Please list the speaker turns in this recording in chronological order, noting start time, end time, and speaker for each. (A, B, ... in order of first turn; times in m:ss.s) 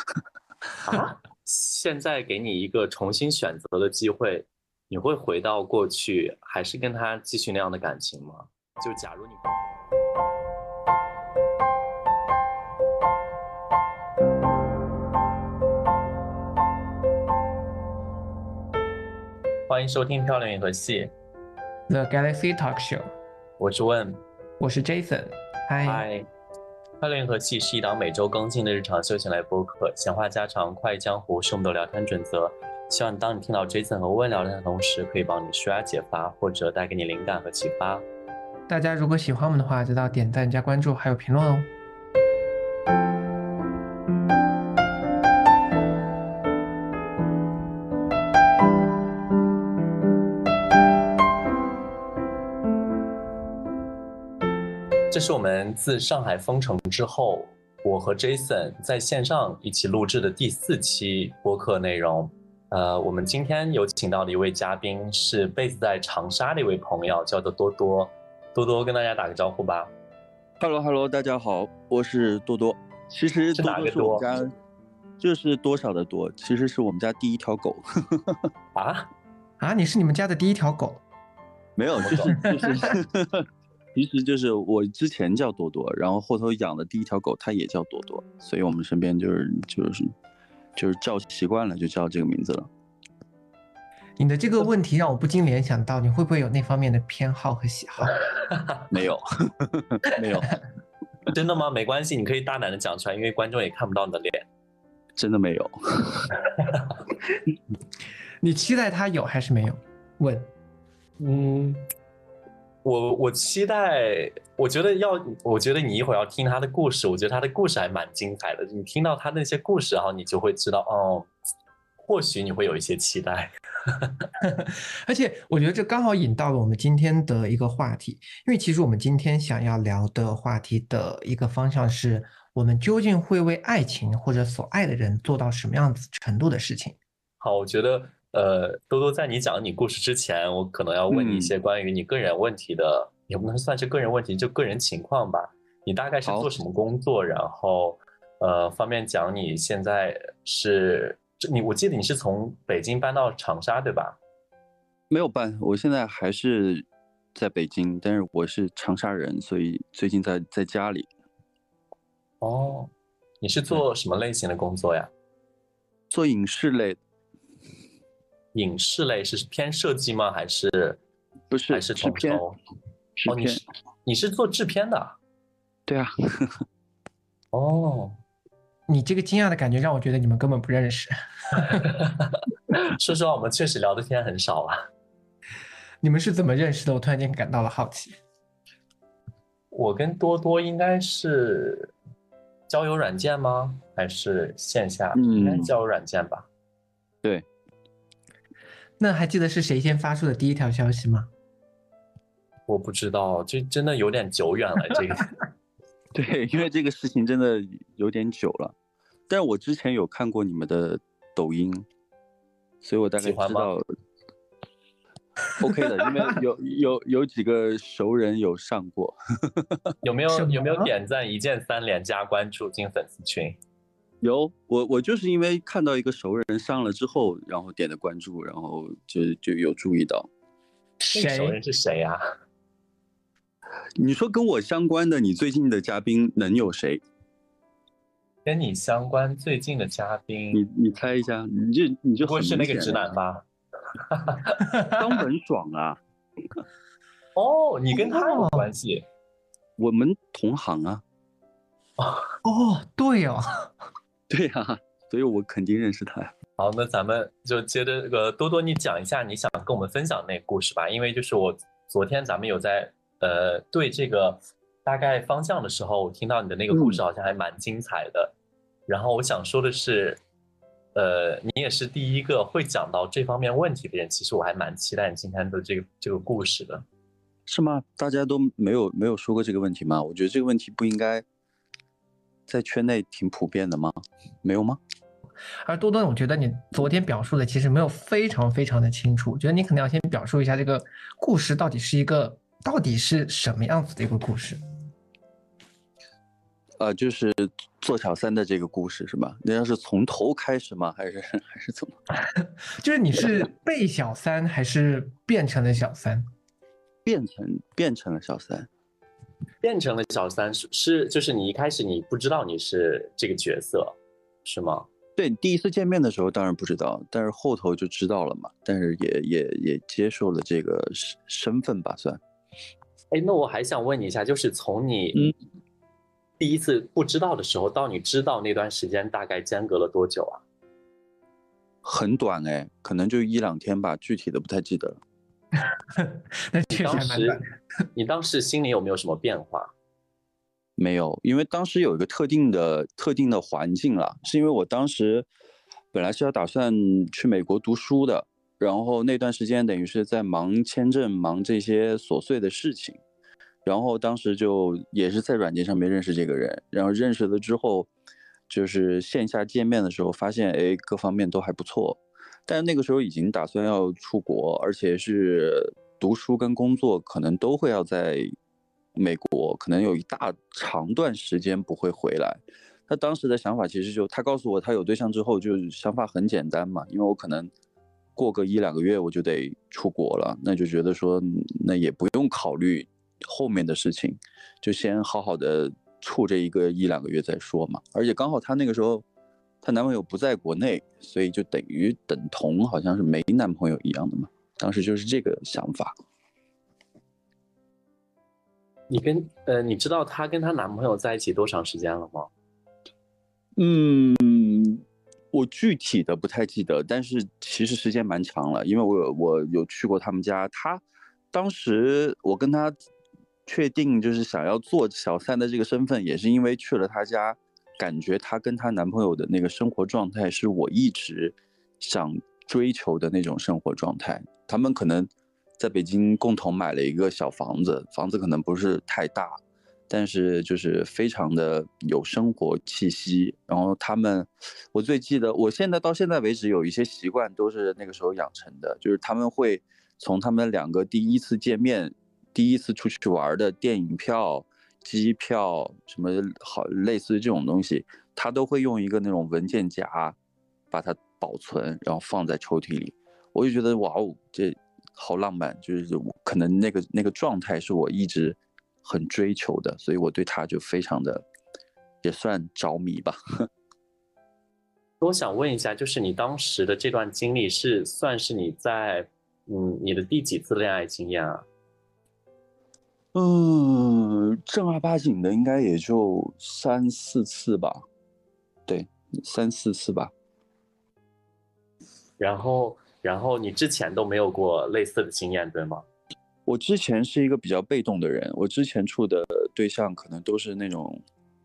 0:00.8-0:09.5 A
0:19.7-0:21.1 A
0:21.9-0:23.0 B
0:23.6-0:24.2 A
0:24.6-0:26.0 B
0:25.8-0:26.3 A
0:27.0-0:38.0 A
0:38.7-0:41.7 B
0:55.1-1:09.9 A
1:10.6-1:14.5 C
1:13.5-1:14.2 A
1:15.2-1:18.4 C
1:18.7-1:19.1 A
1:19.6-1:21.0 B
1:21.8-1:30.1 C
1:21.9-1:22.8 A
1:22.4-1:22.9 B
1:30.8-1:32.7 C
1:34.2-1:38.2 B
1:38.4-1:38.8 A
1:38.9-1:40.6 C
1:41.3-1:44.4 A
1:45.2-1:46.3 C
1:46.6-1:46.9 A
1:48.4-1:50.5 B
1:51.2-1:51.8 A
1:52.8-2:01.3 A
2:02.0-2:04.3 A
2:04.4-2:17.0 B
2:17.4-2:34.2 A
2:21.1-2:21.5 C
2:26.2-2:26.5 C
2:35.1-2:41.1 C
2:42.4-2:45.1 A
2:46.1-2:47.0 C
2:48.5-2:51.0 A
2:51.5-2:52.4 C
2:51.7-2:52.6 A
2:53.2-2:53.6 C
2:53.3-2:55.2 A
2:55.9-2:56.6 C
2:57.5-2:58.2 A
2:58.9-3:01.9 B
3:01.6-3:04.8 A
3:06.0-3:08.2 B
3:09.7-3:11.9 A
3:12.7-3:16.5 A
3:15.2-3:15.7 C
3:19.0-3:21.3 B
3:22.7-3:25.3 A
3:26.1-3:28.7 C
3:29.3-3:31.8 C
3:32.8-3:33.8 C
3:33.2-3:33.7 A
3:35.6-3:39.8 C
3:40.0-3:43.6 A
3:40.3-3:40.9 B
3:44.2-3:50.3 C
3:51.0-3:51.6 B
3:51.1-3:52.2 A
3:54.0-3:57.0 C
3:58.4-4:00.6 A
4:00.5-4:03.0 C
4:02.2-4:03.4 A
4:04.1-4:04.5 A
4:04.6-4:05.2 B
4:05.0-4:06.0 C
4:07.4-4:09.0 A
4:07.9-4:08.7 B
4:09.8-4:11.0 C
4:12.0-4:12.3 A
4:12.4-4:13.7 B
4:14.3-4:16.3 C
4:16.6-4:28.3 A
4:26.7-4:27.0 C
4:28.9-4:30.2 A
4:30.9-4:36.8 A
4:37.5-4:41.2 C
4:42.5-4:44.8 C
4:45.6-4:54.6 B
4:56.8-5:01.9 C
5:02.4-5:06.2 B
5:07.0-5:08.7 C
5:09.6-5:14.9 A
5:15.2-5:22.2 C
5:23.1-5:25.3 A
5:26.4-5:30.4 A
5:31.8-5:35.0 C
5:35.6-5:37.4 B
5:36.7-5:37.4 A
5:37.9-5:39.7 A
5:40.8-5:45.2 C
5:45.9-5:53.0 C
5:53.6-5:57.9 C
5:58.5-6:08.3 C
6:09.0-6:17.5 C
6:18.2-6:29.0 C
6:29.6-6:35.9 C
6:38.9-6:42.3 A
6:43.6-6:52.7 C
6:53.4-7:09.4 C
7:09.9-7:30.2 C
7:30.7-7:41.2 C
7:42.0-7:43.2 C
7:45.0-7:51.4 A
7:53.1-7:57.8 C
7:58.7-8:00.1 C
8:02.2-8:05.8 A
8:06.4-8:11.0 C